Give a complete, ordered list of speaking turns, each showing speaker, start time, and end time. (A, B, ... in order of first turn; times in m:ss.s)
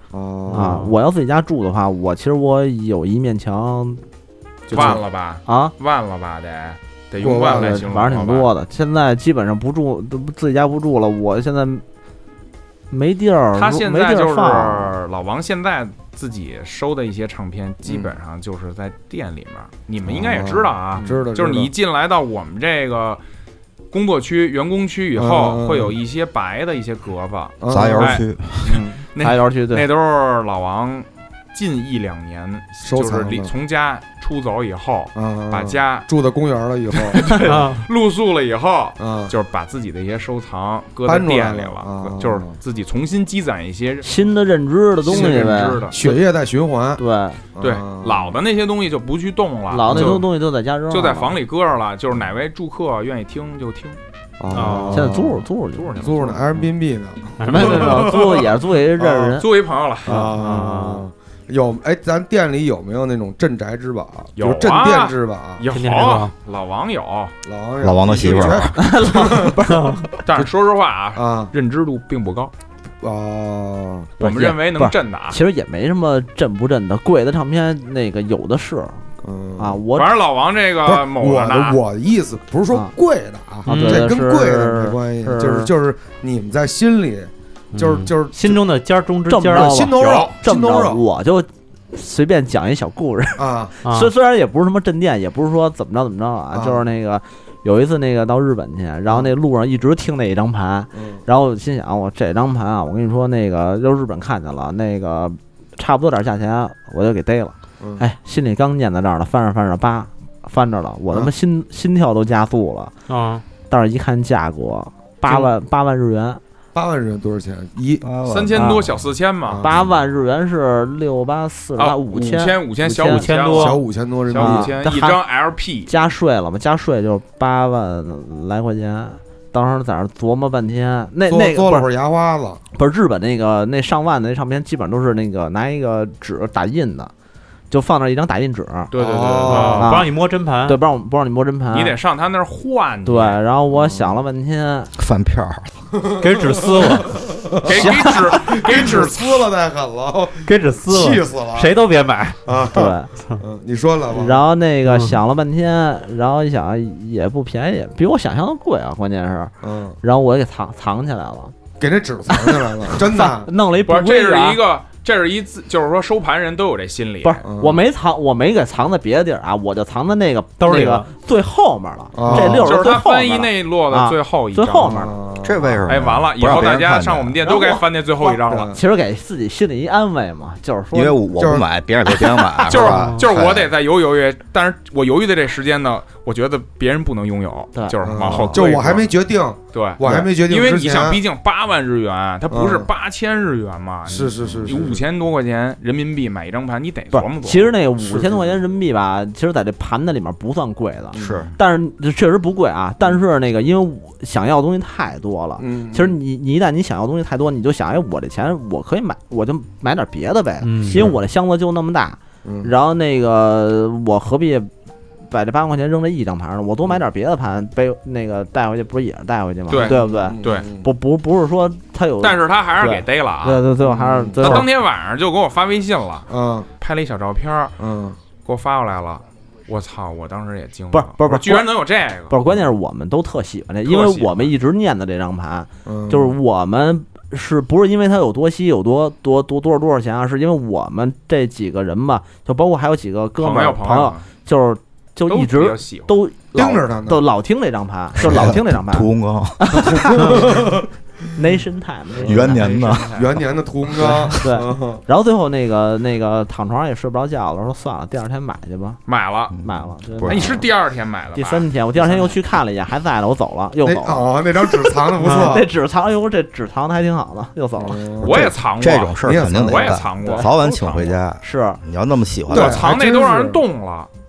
0:00.1-0:00.9 A
0:00.5-0:00.9 B
0:00.5-0:04.0 C
0:04.7-0:08.5 D
0:04.7-0:05.0 A
0:04.7-0:05.7 C
0:07.2-0:07.8 A
0:07.3-0:11.8 C
0:12.9-0:15.0 C
0:13.6-0:23.2 D
0:17.9-0:18.1 A
0:20.0-0:21.7 A
0:21.0-0:21.3 C
0:23.9-0:28.2 D
0:25.2-0:26.0 A
0:27.6-0:28.2 A
0:27.7-0:28.8 E
0:28.6-0:29.8 C
0:29.1-0:36.1 D
0:32.8-0:33.5 A
0:35.2-0:37.4 A
0:37.1-0:44.1 D
0:37.3-0:37.9 B
0:39.0-0:39.3 A
0:41.1-0:42.5 A
0:44.0-0:46.2 C
0:45.0-0:46.0 D
0:45.1-0:47.0 A
0:47.0-0:47.4 C
0:47.6-0:48.4 A
0:47.6-0:50.3 D
0:49.7-0:51.4 C
0:49.9-0:50.2 A
0:50.9-0:54.0 D
0:54.4-0:59.4 A
0:54.5-0:55.2 B
0:54.9-0:56.0 C
0:55.8-0:56.5 D
0:57.4-0:58.3 B
0:57.5-0:59.5 C
0:59.4-1:00.2 D
1:00.0-1:05.6 A
1:00.1-1:00.9 C
1:00.3-1:01.0 B
1:04.4-1:07.4 D
1:05.7-1:06.3 B
1:07.4-1:09.6 A
1:07.8-1:08.8 E
1:08.8-1:10.2 C
1:09.7-1:10.1 B
1:10.2-1:12.5 D
1:11.2-1:11.5 A
1:13.0-1:14.1 A
1:14.2-1:15.4 D
1:14.2-1:19.0 C
1:19.2-1:19.8 A
1:19.6-1:20.2 C
1:20.0-1:21.8 D
1:20.8-1:28.6 A
1:23.7-1:25.7 C
1:23.7-1:24.1 B
1:27.7-1:29.9 B
1:29.3-1:52.9 C
1:29.5-1:31.0 A
1:30.0-1:30.4 D
1:33.4-1:33.8 A
1:33.8-1:34.1 B
1:36.5-1:36.8 A
1:40.9-1:41.2 A
1:53.1-1:53.4 B
1:53.7-1:56.4 C
1:56.7-1:58.0 A
1:58.0-1:59.0 E
1:58.3-1:59.7 D
1:58.5-1:58.9 C
1:59.5-1:59.8 A
1:59.6-2:03.4 C
2:01.8-2:05.9 D
2:03.1-2:03.8 B
2:03.6-2:04.7 A
2:04.3-2:05.2 C
2:05.9-2:11.9 C
2:11.3-2:12.6 A
2:12.7-2:17.1 C
2:17.7-2:18.9 C
2:18.9-2:19.9 D
2:19.0-2:19.9 A
2:19.5-2:20.8 B
2:19.7-2:20.1 C
2:20.6-2:22.0 C
2:21.7-2:23.4 D
2:23.0-2:24.9 C
2:23.7-2:24.2 A
2:25.0-2:25.8 E
2:26.0-2:31.8 A
2:26.2-2:27.2 B
2:27.6-2:29.5 D
2:27.8-2:28.1 C
2:30.4-2:32.4 B
2:32.5-2:34.4 A
2:32.7-2:33.1 C
2:34.1-2:41.6 C
2:34.9-2:35.2 B
2:39.6-2:40.0 A
2:41.8-2:43.5 A
2:42.3-2:44.6 C
2:43.9-2:47.4 D
2:47.2-2:55.2 C
2:47.4-2:47.8 A
2:50.6-2:51.1 B
2:52.1-2:52.8 A
2:52.3-2:55.0 D
2:54.8-2:55.8 A
2:55.4-2:57.4 E
2:55.9-2:58.7 D
2:57.4-2:57.8 C
2:58.2-2:58.8 A
2:58.7-3:01.2 C
3:00.9-3:03.7 E
3:01.4-3:01.6 A
3:02.7-3:09.1 D
3:02.9-3:03.2 B
3:08.0-3:11.2 A
3:09.7-3:17.7 D
3:10.0-3:10.3 C
3:12.5-3:12.9 A
3:14.1-3:15.0 A
3:17.1-3:34.7 C
3:18.0-3:18.6 A
3:21.1-3:21.5 A
3:21.2-3:21.5 D
3:25.6-3:26.2 A
3:30.6-3:31.0 B
3:32.4-3:32.7 A
3:35.3-3:44.7 C
3:39.7-3:40.7 D
3:39.8-3:40.9 A
3:42.2-3:43.6 D
3:43.8-3:44.6 A
3:44.4-3:47.8 D
3:46.3-3:46.7 A
3:47.8-3:48.2 A
3:48.4-3:52.3 D
3:50.9-3:51.7 C
3:52.3-4:10.6 C
3:53.8-3:54.5 D
3:55.9-3:56.4 A
4:03.4-4:04.3 D
4:05.3-4:06.1 D
4:06.5-4:07.2 A
4:08.2-4:10.4 E
4:10.0-4:10.9 A
4:11.4-4:12.7 C
4:12.2-4:13.2 E
4:12.3-4:13.4 D
4:13.1-4:15.0 A
4:14.0-4:19.0 C
4:19.1-4:19.6 D
4:19.5-4:20.6 E
4:19.6-4:20.7 C
4:20.2-4:21.7 D
4:21.4-4:28.1 C
4:22.0-4:22.3 A
4:23.8-4:25.7 A
4:27.8-4:28.5 A
4:28.2-4:31.2 D
4:28.2-4:32.9 E
4:29.2-4:30.0 A
4:30.2-4:30.5 C
4:31.4-4:31.8 C
4:32.5-4:33.6 A
4:32.5-4:34.1 D